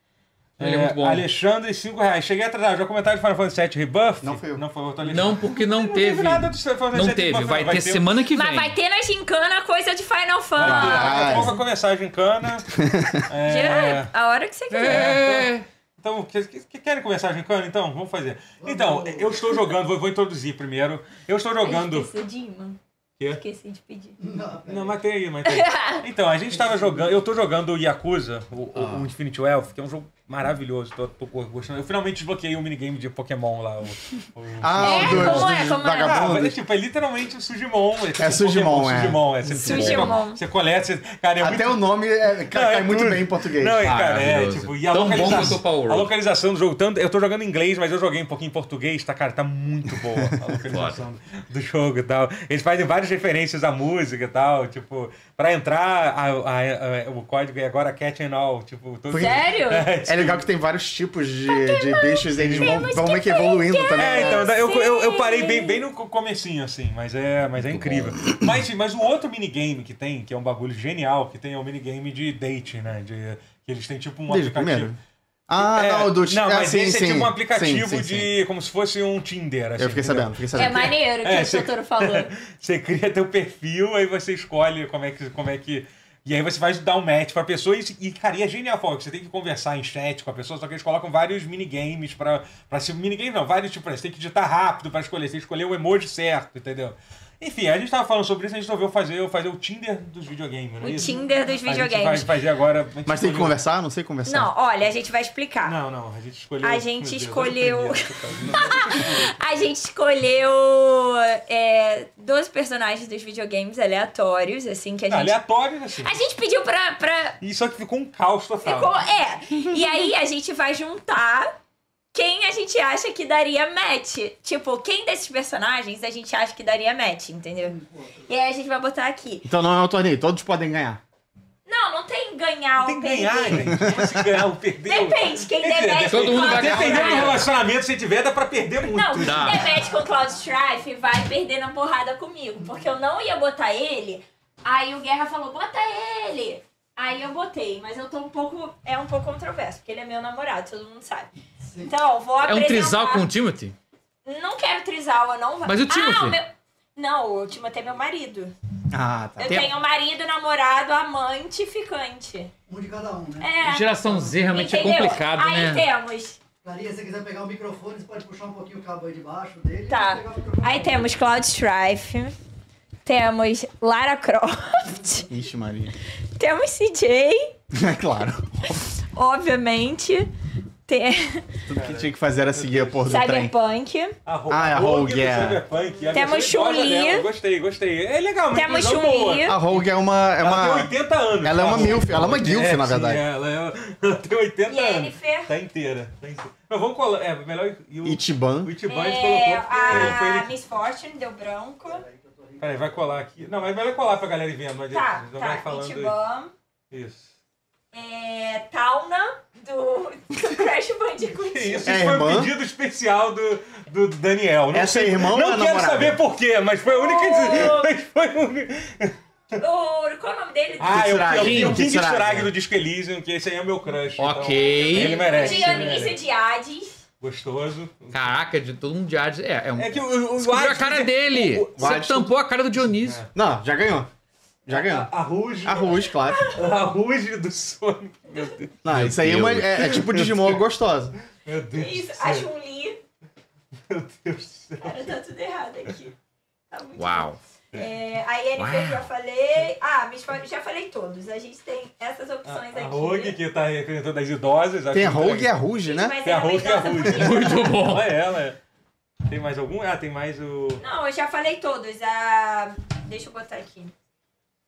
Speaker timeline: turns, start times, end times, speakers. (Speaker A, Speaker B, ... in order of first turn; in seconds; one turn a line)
Speaker A: 0.6-8.1
Speaker B: 0.6-1.2
Speaker C: 4.2-4.6
Speaker B: 5.0-8.8
Speaker D: 8.3-11.6
Speaker A: 10.6-12.7
Speaker C: 10.6-11.5
Speaker C: 12.8-13.2
Speaker A: 13.3-14.1
Speaker D: 13.4-15.2
Speaker B: 14.7-15.7
Speaker A: 14.8-22.1
Speaker E: 18.6-19.6
Speaker D: 21.6-22.8
Speaker D: 23.3-24.2
Speaker E: 24.2-25.1
Speaker A: 24.7-41.8
Speaker D: 25.4-26.0
Speaker E: 26.5-27.1
Speaker C: 34.6-36.6
Speaker D: 34.8-36.2
Speaker C: 38.2-40.0
Speaker D: 39.6-40.4
Speaker C: 41.4-43.8
Speaker A: 42.5-60.4
Speaker B: 43.8-46.1
Speaker C: 45.2-45.6
Speaker B: 50.7-51.0
Speaker C: 59.1-59.4
Speaker D: 59.1-59.9
Speaker C: 60.1-64.5
Speaker D: 61.5-65.8
Speaker A: 62.4-62.9
Speaker A: 64.0-74.9
Speaker B: 67.6-68.1
Speaker C: 74.3-75.0
Speaker C: 75.5-78.3
Speaker A: 75.6-103.6
Speaker C: 79.8-80.9
Speaker D: 80.5-82.3
Speaker D: 100.8-102.3
Speaker C: 103.1-104.5
Speaker D: 104.3-105.8
Speaker A: 105.6-109.3
Speaker D: 106.6-115.4
Speaker A: 115.1-116.2
Speaker D: 116.0-117.4
Speaker A: 117.4-119.0
Speaker D: 118.6-121.5
Speaker D: 122.1-129.5
Speaker E: 127.6-128.3
Speaker C: 129.5-131.0
Speaker D: 131.7-133.8
Speaker A: 132.8-139.6
Speaker C: 133.7-134.3
Speaker D: 134.8-137.5
Speaker B: 136.1-137.5
Speaker D: 138.8-151.3
Speaker B: 139.2-139.7
Speaker E: 139.8-140.4
Speaker E: 142.6-142.9
Speaker E: 151.7-151.9
Speaker D: 151.8-153.3
Speaker B: 152.4-153.8
Speaker D: 154.2-158.5
Speaker B: 155.7-156.4
Speaker C: 158.9-159.7
Speaker D: 159.4-162.5
Speaker E: 162.7-164.6
Speaker D: 163.4-163.9
Speaker B: 163.6-165.9
Speaker D: 164.5-166.4
Speaker E: 166.6-171.2
Speaker D: 169.9-172.3
Speaker D: 173.1-175.2
Speaker E: 175.0-175.2
Speaker C: 175.3-175.9
Speaker D: 176.4-177.5
Speaker C: 177.7-178.4
Speaker D: 179.1-180.3
Speaker D: 180.9-181.4
Speaker C: 181.7-183.5
Speaker A: 181.7-183.1
Speaker D: 183.1-184.2
Speaker A: 184.3-189.9
Speaker C: 184.5-185.6
Speaker D: 186.1-187.3
Speaker D: 188.5-189.6
Speaker C: 189.5-193.2
Speaker A: 190.4-200.5
Speaker D: 194.7-195.5
Speaker C: 198.0-198.7
Speaker D: 198.9-202.0
Speaker E: 201.9-203.8
Speaker A: 202.6-206.2
Speaker D: 204.9-206.5
Speaker A: 206.9-207.3
Speaker D: 207.9-211.9
Speaker A: 211.5-219.2
Speaker C: 211.8-212.5
Speaker C: 214.7-216.2
Speaker D: 216.9-217.9
Speaker D: 219.6-221.3
Speaker A: 220.8-226.2
Speaker C: 220.9-222.5
Speaker B: 221.4-221.9
Speaker B: 224.2-225.9
Speaker D: 224.4-227.0
Speaker A: 227.2-228.2
Speaker B: 228.1-233.2
Speaker A: 229.8-232.1
Speaker C: 231.8-232.3
Speaker A: 233.0-233.3
Speaker C: 233.3-234.1
Speaker C: 234.7-235.1
Speaker A: 234.7-235.9
Speaker C: 235.6-236.5
Speaker A: 236.5-239.1
Speaker C: 238.8-241.1
Speaker B: 238.9-239.8
Speaker A: 239.8-240.6
Speaker A: 241.4-242.5
Speaker D: 241.8-243.0
Speaker A: 243.9-245.1
Speaker D: 244.8-246.2
Speaker D: 246.7-253.4
Speaker B: 247.0-247.4
Speaker B: 248.6-249.0
Speaker A: 252.5-255.5
Speaker C: 254.9-256.2
Speaker D: 255.8-257.7
Speaker A: 256.2-258.6
Speaker B: 257.1-258.1
Speaker A: 259.3-260.8
Speaker D: 260.8-263.9